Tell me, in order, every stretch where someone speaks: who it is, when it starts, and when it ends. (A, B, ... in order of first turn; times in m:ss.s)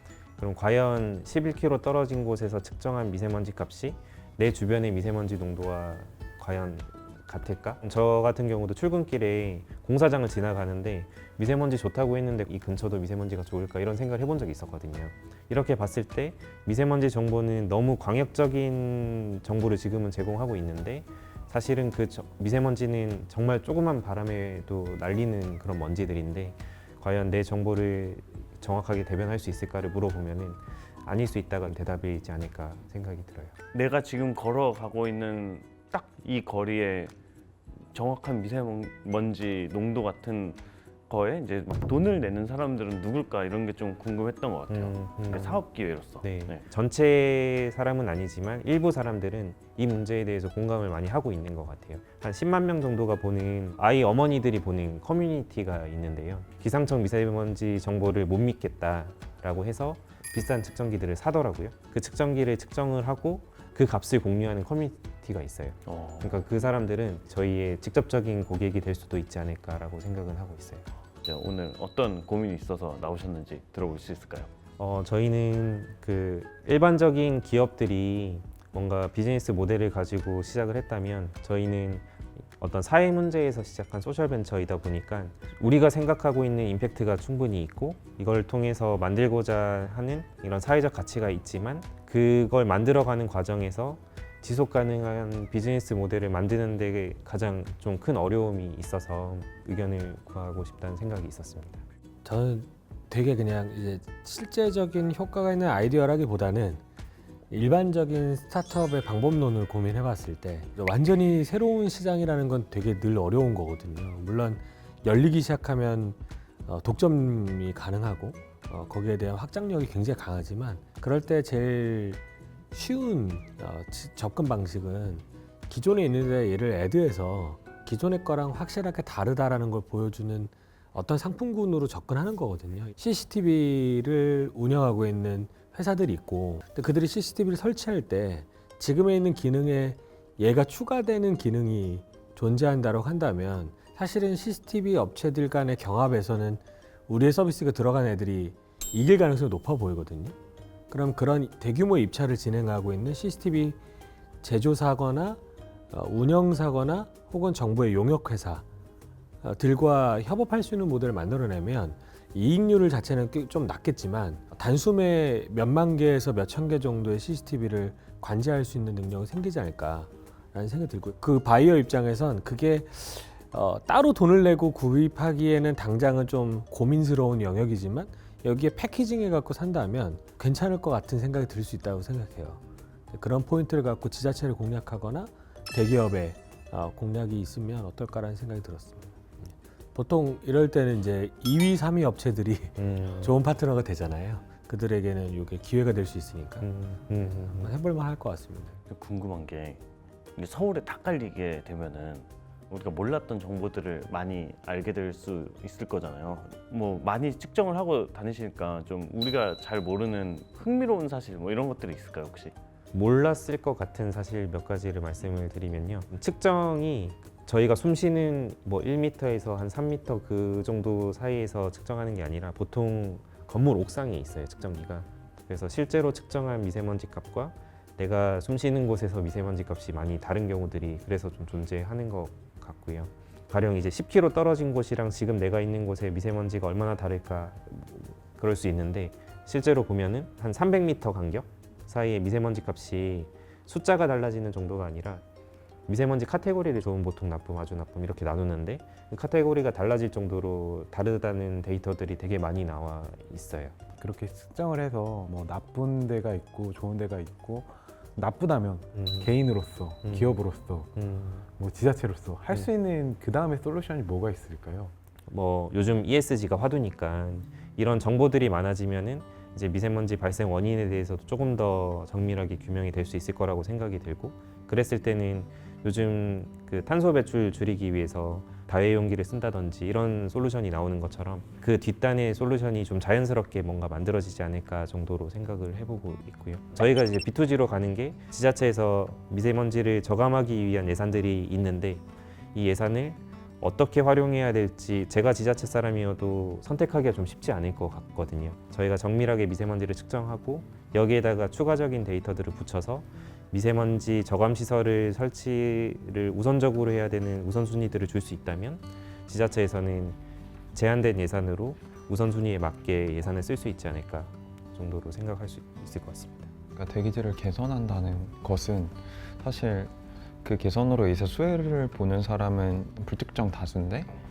0:00.4-0:33.5 A
0:33.7-0:37.1 B
0:37.9-0:46.6 B
0:44.7-0:45.6 A
0:46.2-1:10.8 A
1:05.9-1:06.5 B
1:11.2-1:14.5 B
1:14.8-1:22.1 A
1:22.6-1:41.8 A
1:42.2-1:46.8 C
1:47.5-2:02.2 C
2:02.7-2:30.4 C
2:30.9-2:33.8 C
2:34.4-2:35.4 C
2:35.9-2:38.6 C
2:39.4-3:02.6 C
3:03.1-3:16.7 C
3:12.8-3:13.4 A
3:16.6-3:17.7 A
3:17.4-3:18.8 C
3:18.9-3:19.8 B
3:20.4-3:32.5 B
3:32.9-4:05.2 A
4:05.9-4:13.8 A
4:14.0-4:20.9 D
4:18.9-4:19.3 A
4:20.0-4:20.3 A
4:21.0-4:21.5 A
4:21.6-4:24.9 D
4:25.3-5:10.2 A
5:10.7-5:16.5 A
5:16.8-5:24.1 E